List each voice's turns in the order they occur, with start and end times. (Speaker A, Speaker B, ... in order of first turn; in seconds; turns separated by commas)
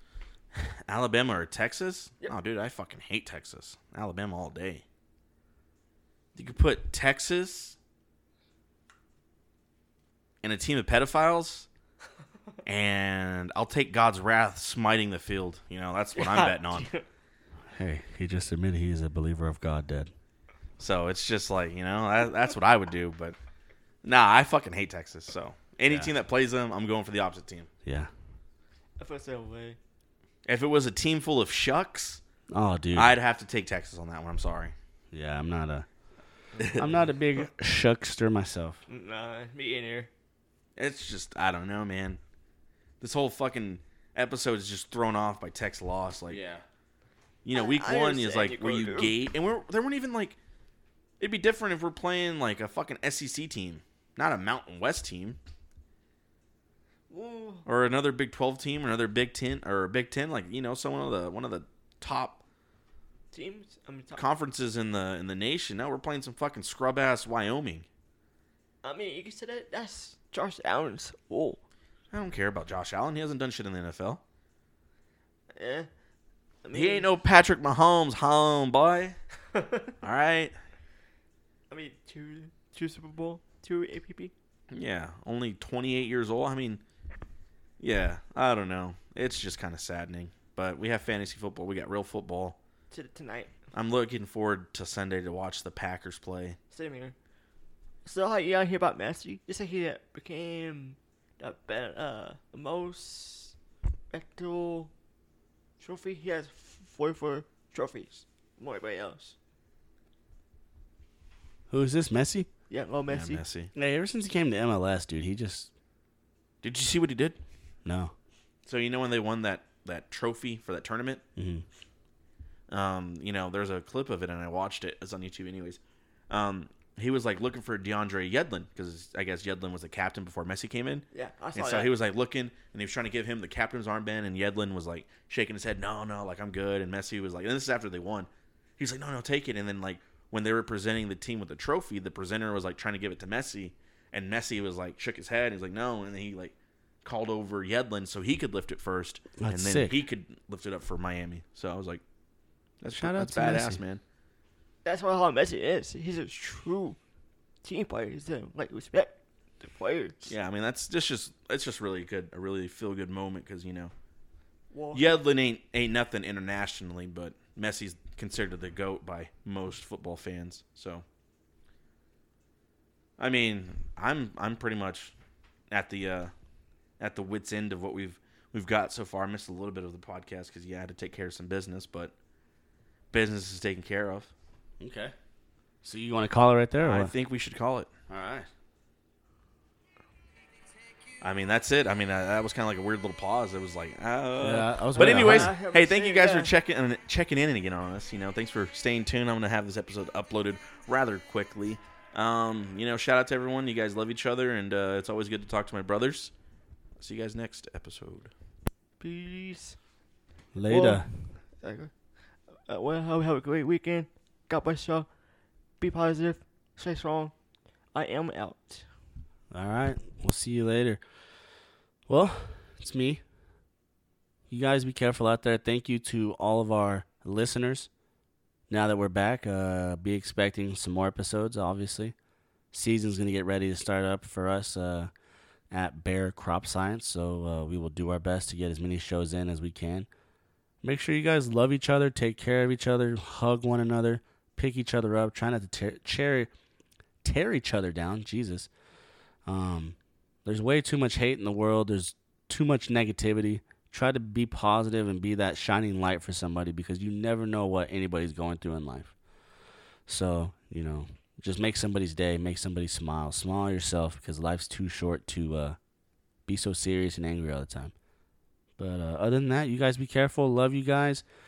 Speaker A: 0.5-4.8, Speaker A: 6.3-7.8, Speaker A: 10.4-11.7, Speaker A: 12.6-16.9, Speaker B: 16.1-17.0, Speaker C: 17.7-20.1, Speaker A: 20.8-23.4, Speaker A: 24.0-27.7, Speaker C: 25.9-26.1, Speaker C: 27.8-28.1, Speaker B: 29.0-29.8, Speaker A: 30.4-32.2, Speaker C: 32.5-33.2, Speaker A: 32.9-34.7, Speaker C: 35.1-35.9, Speaker A: 36.6-36.8, Speaker C: 36.8-38.8, Speaker B: 38.9-40.1, Speaker A: 40.8-42.2, Speaker A: 43.0-46.4, Speaker C: 46.3-46.6, Speaker A: 47.4-50.4, Speaker B: 47.5-49.1, Speaker A: 51.2-55.4, Speaker B: 57.1-57.6, Speaker A: 57.6-62.4, Speaker B: 63.3-64.3, Speaker A: 64.2-67.8, Speaker B: 68.8-71.6, Speaker A: 72.1-74.2, Speaker B: 75.5-75.9, Speaker B: 76.6-77.1, Speaker A: 76.7-79.2, Speaker B: 79.5-79.9, Speaker A: 80.0-80.5, Speaker B: 81.7-84.3, Speaker A: 84.7-86.8, Speaker A: 87.8-92.6, Speaker B: 92.9-93.5, Speaker A: 93.7-96.6, Speaker B: 96.7-97.1, Speaker B: 98.0-103.5, Speaker B: 104.1-104.9, Speaker B: 105.8-109.3, Speaker C: 111.7-112.5, Speaker B: 112.7-113.4, Speaker A: 113.1-113.7, Speaker C: 113.7-115.7, Speaker A: 116.6-117.4, Speaker C: 117.8-118.1, Speaker A: 118.7-121.2, Speaker C: 121.3-121.6, Speaker A: 122.7-152.0, Speaker B: 131.1-131.9, Speaker C: 149.4-150.0, Speaker A: 152.8-154.0, Speaker C: 152.9-153.8, Speaker B: 154.8-157.0, Speaker B: 157.6-160.3, Speaker A: 160.3-163.9, Speaker B: 164.7-165.2, Speaker A: 164.9-171.0, Speaker A: 173.2-175.1, Speaker A: 175.7-176.3, Speaker A: 177.0-182.1, Speaker A: 183.1-184.3, Speaker C: 184.8-185.1, Speaker C: 185.8-187.1, Speaker A: 186.8-187.9, Speaker C: 188.1-188.5, Speaker A: 191.2-206.3, Speaker C: 194.4-195.5, Speaker B: 194.9-196.5, Speaker A: 207.0-208.3, Speaker B: 209.0-209.8, Speaker C: 210.5-211.1, Speaker B: 210.7-211.9, Speaker B: 212.7-215.1, Speaker B: 215.8-217.3, Speaker B: 217.9-218.9, Speaker C: 219.5-221.0, Speaker C: 222.1-223.2, Speaker C: 224.5-227.9, Speaker C: 228.7-232.1, Speaker C: 232.7-235.1, Speaker C: 235.7-240.1, Speaker C: 240.8-246.5, Speaker C: 247.2-248.7, Speaker C: 249.4-259.1, Speaker C: 260.1-265.8, Speaker C: 266.4-267.9, Speaker C: 268.8-271.2